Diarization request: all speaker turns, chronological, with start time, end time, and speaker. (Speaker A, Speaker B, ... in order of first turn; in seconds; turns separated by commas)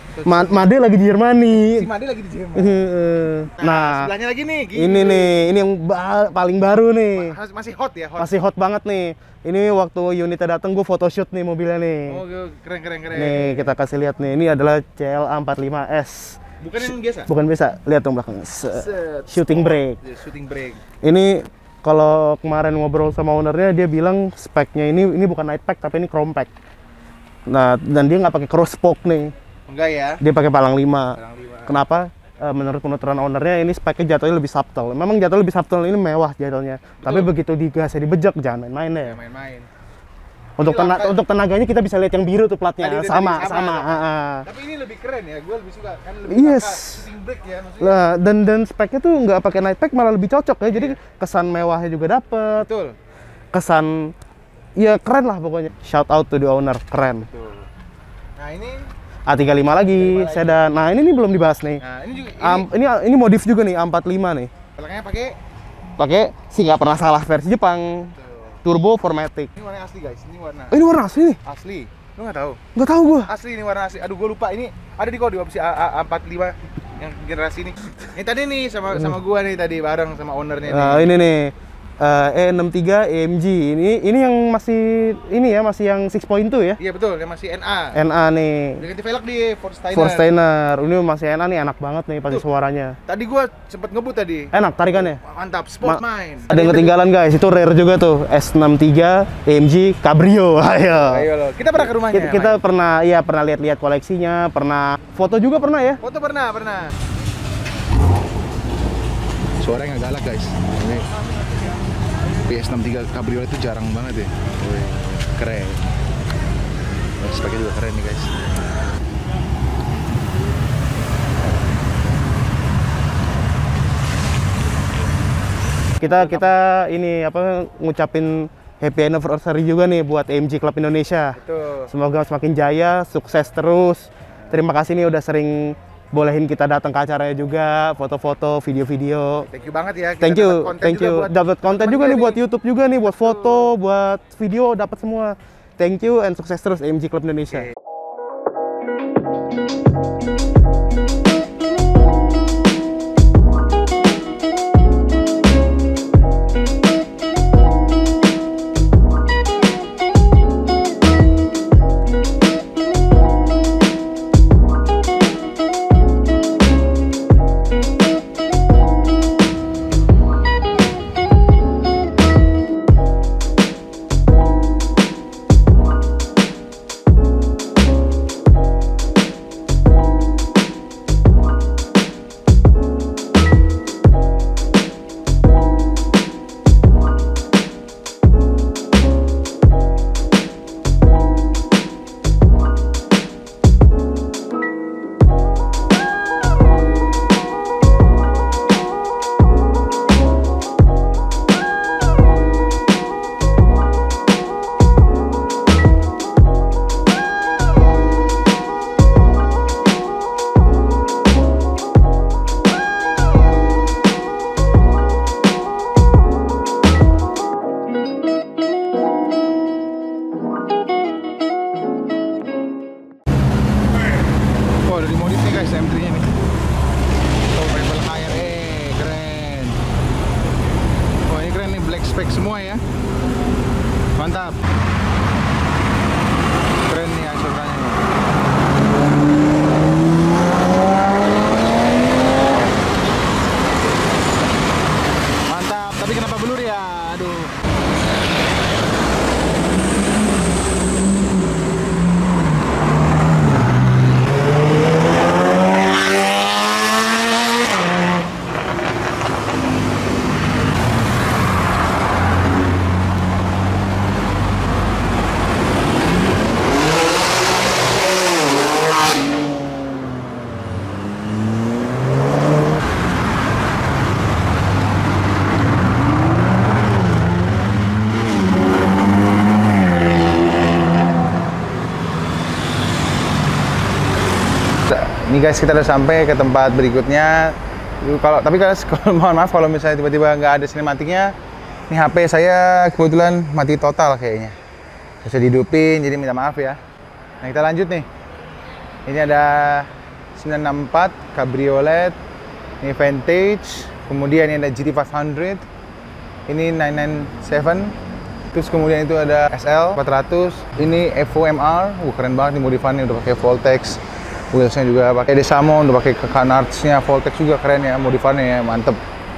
Speaker A: 0.1-0.8, Speaker B: 0.2-1.9, Speaker A: 1.5-2.8, Speaker B: 2.5-4.1, Speaker A: 3.6-5.3, Speaker B: 4.7-7.3, Speaker A: 7.1-8.4, Speaker B: 8.2-12.2, Speaker A: 12.1-13.7, Speaker B: 13.1-16.4, Speaker A: 16.6-17.3, Speaker B: 17.2-20.0, Speaker A: 18.7-20.8, Speaker B: 21.0-26.5, Speaker B: 27.5-29.3, Speaker A: 29.7-30.2, Speaker B: 30.2-39.1, Speaker A: 31.1-31.8, Speaker A: 37.0-37.3, Speaker A: 39.0-39.7, Speaker B: 40.6-44.4, Speaker A: 40.6-41.2, Speaker A: 42.8-48.0, Speaker B: 46.3-47.1, Speaker B: 47.8-52.6, Speaker A: 50.7-51.0, Speaker A: 52.6-53.0, Speaker B: 53.5-54.1, Speaker B: 54.8-57.3, Speaker A: 57.2-57.7, Speaker A: 58.4-58.9, Speaker B: 59.3-61.8, Speaker A: 59.9-60.7, Speaker A: 61.8-62.7, Speaker B: 62.4-64.5, Speaker A: 64.8-65.4, Speaker B: 66.0-68.1, Speaker B: 68.6-69.5, Speaker A: 69.5-70.8, Speaker B: 70.7-71.4, Speaker A: 71.4-72.6, Speaker B: 72.7-73.3, Speaker A: 73.3-81.1, Speaker B: 80.7-86.8, Speaker A: 86.8-88.0, Speaker B: 87.9-88.8, Speaker A: 88.8-90.3, Speaker B: 89.9-93.0, Speaker A: 93.1-96.9, Speaker B: 94.5-95.2, Speaker B: 95.8-101.3, Speaker A: 101.1-102.6, Speaker B: 102.1-106.0, Speaker A: 106.0-106.9, Speaker A: 109.6-111.0, Speaker A: 112.4-115.8, Speaker A: 117.2-118.3, Speaker A: 126.0-126.5, Speaker B: 126.0-131.4, Speaker A: 131.4-131.9, Speaker B: 131.9-139.4, Speaker A: 139.5-142.4, Speaker B: 140.2-147.7, Speaker A: 224.8-226.3, Speaker A: 227.5-229.8, Speaker A: 231.3-232.8, Speaker A: 234.2-234.6, Speaker A: 236.9-238.0, Speaker A: 245.4-247.5, Speaker A: 284.9-291.3, Speaker A: 291.9-294.6, Speaker A: 295.2-296.8, Speaker A: 297.4-298.1, Speaker A: 299.1-302.2, Speaker A: 302.8-305.6, Speaker A: 306.5-307.9, Speaker A: 308.5-314.0, Speaker A: 314.5-319.0